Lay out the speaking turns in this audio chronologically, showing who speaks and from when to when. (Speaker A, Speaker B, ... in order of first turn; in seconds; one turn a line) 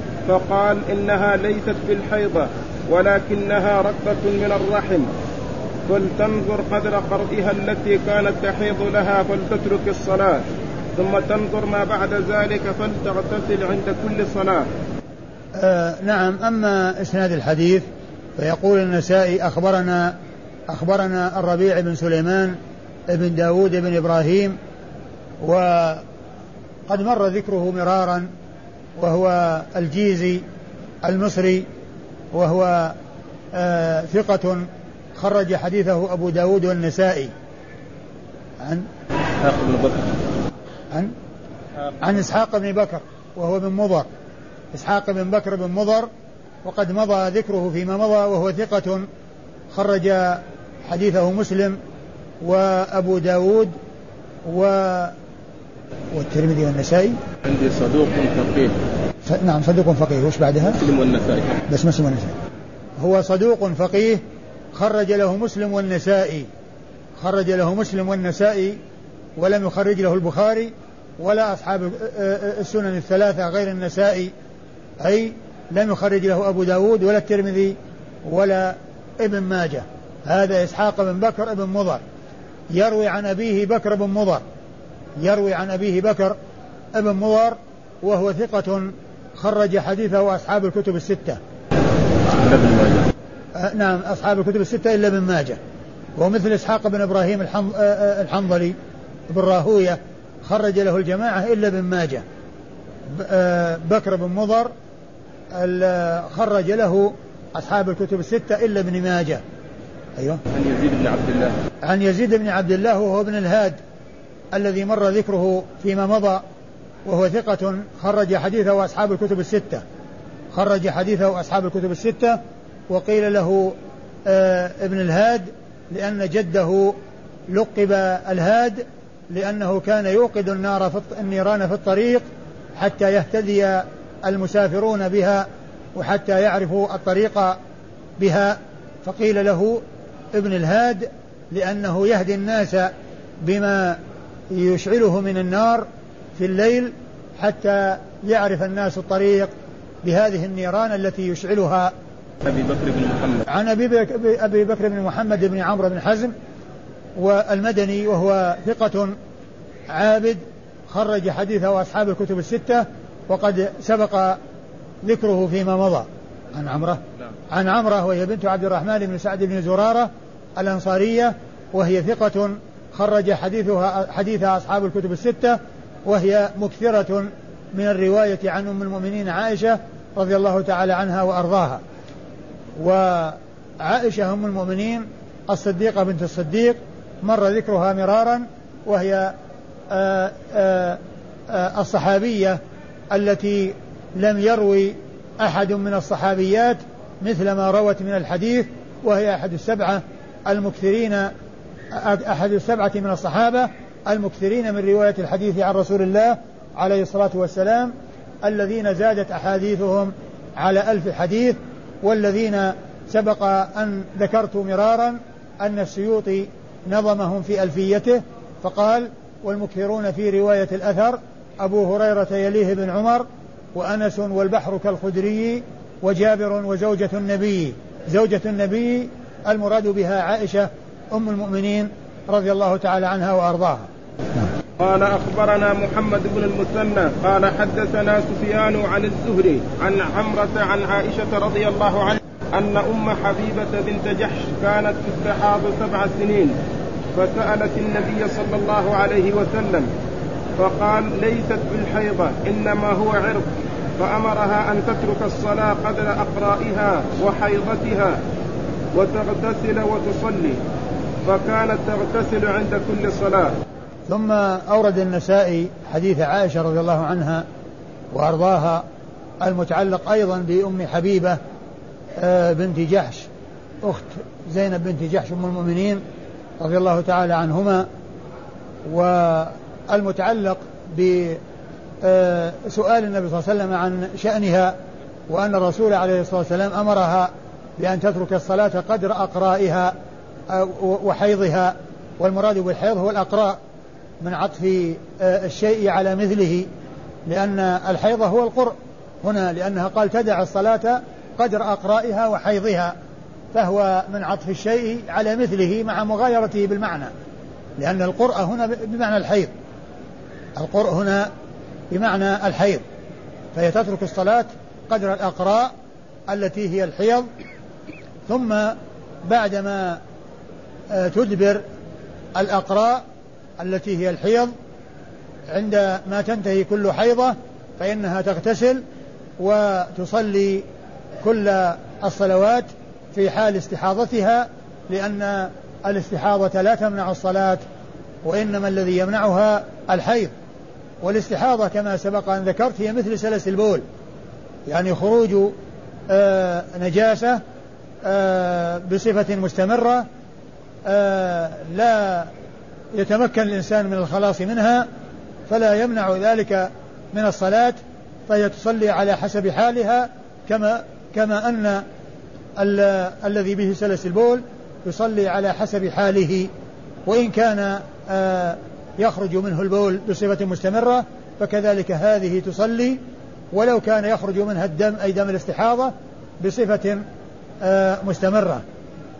Speaker A: 0.3-5.1
Speaker A: 5.9-10.4
Speaker A: 11.0-14.7
Speaker B: 15.6-17.9
Speaker B: 18.4-20.2
Speaker B: 20.7-22.6
Speaker B: 23.1-24.6
Speaker B: 25.4-26.0
Speaker B: 26.9-28.3
Speaker B: 29.0-30.4
Speaker B: 31.0-31.7
Speaker B: 32.3-33.0
Speaker B: 33.5-37.3
Speaker B: 38.6-38.9
Speaker A: 39.4-40.2
Speaker B: 42.0-44.1
Speaker B: 44.7-46.1
Speaker B: 46.6-49.0
Speaker B: 49.7-51.8
Speaker B: 52.4-53.7
Speaker B: 54.5-55.2
Speaker B: 56.1-57.2
Speaker A: 57.5-58.8
Speaker B: 59.3-60.8
Speaker A: 60.7-61.6
Speaker B: 61.7-62.4
Speaker B: 63.0-64.2
Speaker B: 64.7-66.5
Speaker B: 67.2-68.8
Speaker B: 69.4-74.3
Speaker B: 75.0-82.0
Speaker B: 82.7-84.4
Speaker B: 85.2-86.4
Speaker B: 86.9-91.4
Speaker A: 92.3-93.1
Speaker B: 93.6-95.6
Speaker B: 96.2-98.8
Speaker B: 99.3-102.2
Speaker B: 103.1-104.7
Speaker B: 105.5-109.4
Speaker B: 110.2-110.4
Speaker A: 110.5-111.5
Speaker B: 111.8-113.8
Speaker B: 114.5-116.4
Speaker B: 117.0-119.8
Speaker B: 120.5-123.8
Speaker B: 124.3-127.0
Speaker B: 127.5-137.6
Speaker B: 138.2-144.0
Speaker B: 144.5-149.5
Speaker B: 150.0-151.9
Speaker A: 152.4-153.4
Speaker B: 153.5-156.3
Speaker B: 157.2-159.1
Speaker B: 159.9-164.4
Speaker B: 165.0-181.8
Speaker B: 182.8-189.3
Speaker B: 189.9-192.6
Speaker B: 193.1-201.3
Speaker B: 201.9-207.9
Speaker B: 208.4-234.5
Speaker A: 234.8-246.6
Speaker A: 247.2-249.9
Speaker A: 250.6-253.5
Speaker A: 254.0-258.2
Speaker A: 258.9-260.6
Speaker A: 261.3-263.6
Speaker B: 264.1-267.4
Speaker B: 268.1-268.9
Speaker B: 269.4-271.4
Speaker B: 272.2-273.3
Speaker B: 273.8-276.0
Speaker B: 276.6-277.9
Speaker B: 278.9-281.4
Speaker B: 282.0-284.8
Speaker B: 285.3-289.9
Speaker B: 290.5-293.6
Speaker B: 294.2-296.7
Speaker B: 297.3-302.9
Speaker B: 303.5-307.1
Speaker B: 307.8-309.5
Speaker B: 310.6-311.3
Speaker B: 311.9-312.8
Speaker B: 313.5-315.7
Speaker B: 316.3-317.3
Speaker B: 318.3-320.0
Speaker B: 320.9-321.6
Speaker B: 322.4-323.0
Speaker B: 323.6-324.5
Speaker B: 325.5-328.8
Speaker B: 329.4-330.6
Speaker B: 331.2-337.6
Speaker B: 338.2-340.3
Speaker B: 341.0-343.8
Speaker B: 344.7-345.5
Speaker B: 346.1-347.4
Speaker B: 348.0-350.1
Speaker B: 350.9-352.3
Speaker B: 352.9-354.9
Speaker B: 355.5-361.8
Speaker B: 362.6-366.5
Speaker B: 367.1-373.0
Speaker B: 373.5-377.0
Speaker B: 377.6-378.6